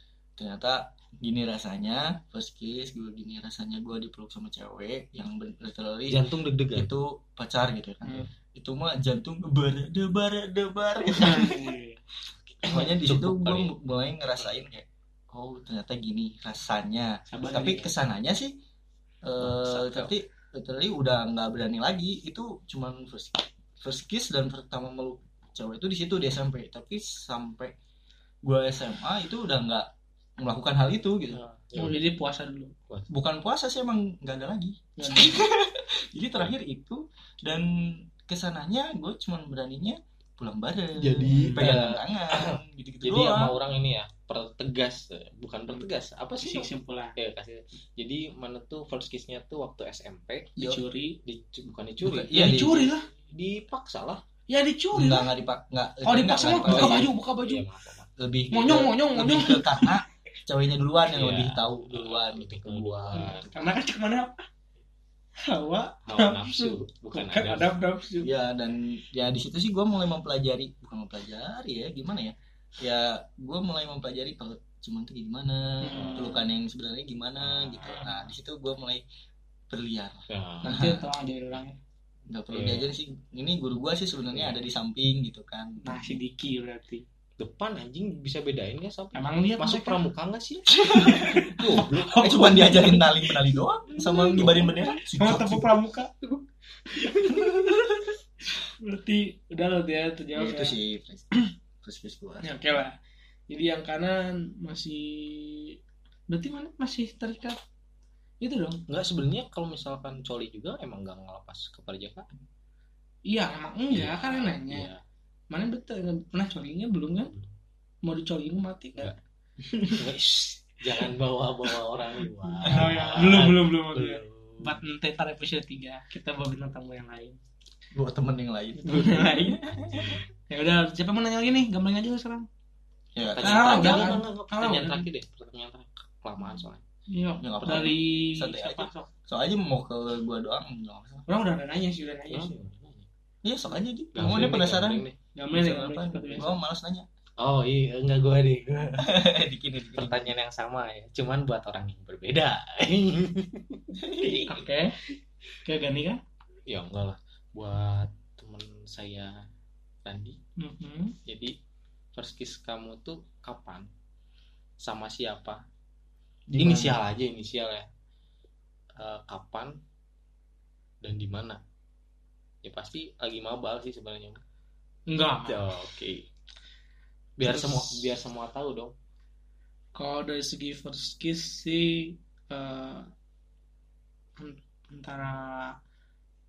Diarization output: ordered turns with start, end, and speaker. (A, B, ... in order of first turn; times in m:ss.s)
0:00.4-0:11.8 A
0:06.1-0:06.9 B
0:11.1-0:12.0 C
0:12.5-0:13.7 B
0:12.6-0:18.5 A
0:17.3-0:17.9 C
0:19.2-0:27.7 A
0:19.4-0:20.1 B
0:28.4-0:29.9 A
0:30.4-0:31.4 A
0:31.3-0:32.0 B
0:31.8-0:32.7 C
0:33.1-0:43.6 A
0:35.0-0:35.4 C
0:41.0-0:50.6 B
0:41.2-0:41.7 C
0:46.4-0:47.2 C
0:50.6-0:51.2 C
0:51.2-0:54.2 B
0:52.0-0:52.9 A
0:52.3-0:53.1 C
0:54.5-0:55.3 C
0:54.9-0:57.1 A
0:56.0-0:57.6 C
0:56.7-0:58.2 B
0:58.2-1:03.4 A
0:58.5-1:00.0 C
1:01.1-1:03.6 B
1:03.2-1:04.4 C
1:05.5-1:08.3 C
1:06.1-1:07.7 B
1:08.2-1:19.0 A
1:15.8-1:16.5 C
1:16.0-1:16.4 B
1:17.4-1:18.2 B
1:17.8-1:18.1 C
1:19.7-1:21.1 A
1:20.3-1:20.8 B
1:20.6-1:21.8 C
1:22.3-1:26.2 A
1:22.5-1:22.9 B
1:24.3-1:24.6 B
1:25.8-1:27.0 C
1:27.4-1:32.9 B
1:29.1-1:30.0 C
1:30.7-1:33.4 C
1:30.9-1:35.7 A
1:33.9-1:36.1 C
1:36.9-1:40.8 C
1:37.2-1:37.9 A
1:40.4-1:41.3 A
1:41.8-1:42.5 A
1:42.4-1:42.9 C
1:43.5-1:45.8 C
1:46.3-1:47.6 C
1:48.4-1:48.8 C
1:48.9-1:52.3 B
1:53.3-1:54.9 C
1:53.9-1:55.0 B
1:55.5-1:57.3 C
1:57.3-1:57.5 B
1:58.1-1:59.1 C
1:59.6-2:00.1 A
2:00.0-2:04.8 B
2:02.5-2:03.1 A
2:02.7-2:07.4 C
2:07.9-2:10.2 A
2:08.8-2:09.6 C
2:09.7-2:10.3 B
2:10.5-2:12.5 C
2:13.2-2:14.2 A
2:13.4-2:16.8 B
2:13.4-2:15.1 C
2:17.1-2:19.1 C
2:17.4-2:21.3 A
2:17.6-2:18.0 B
2:21.3-2:22.6 C
2:22.3-2:23.1 B
2:23.4-2:27.1 A
2:24.2-2:25.2 B
2:25.4-2:26.5 C
2:27.4-2:29.1 B
2:29.0-2:30.3 A
2:30.0-2:33.8 B
2:34.0-2:34.6 A
2:34.2-2:35.0 C
2:35.6-2:36.2 C
2:36.7-2:39.4 B
2:40.0-2:40.4 B
2:40.6-2:41.2 C
2:41.3-2:41.6 B
2:42.2-2:43.9 B
2:44.8-2:45.6 B
2:46.5-2:47.0 A
2:46.6-2:47.9 B
2:49.0-2:49.8 B
2:51.0-2:51.6 B
2:52.6-2:54.4 B
2:55.1-2:55.6 C
2:55.5-2:56.3 B
2:57.4-2:58.9 B
2:57.5-2:58.0 C
3:00.0-3:02.0 C
3:02.5-3:03.1 C
3:04.4-3:05.7 C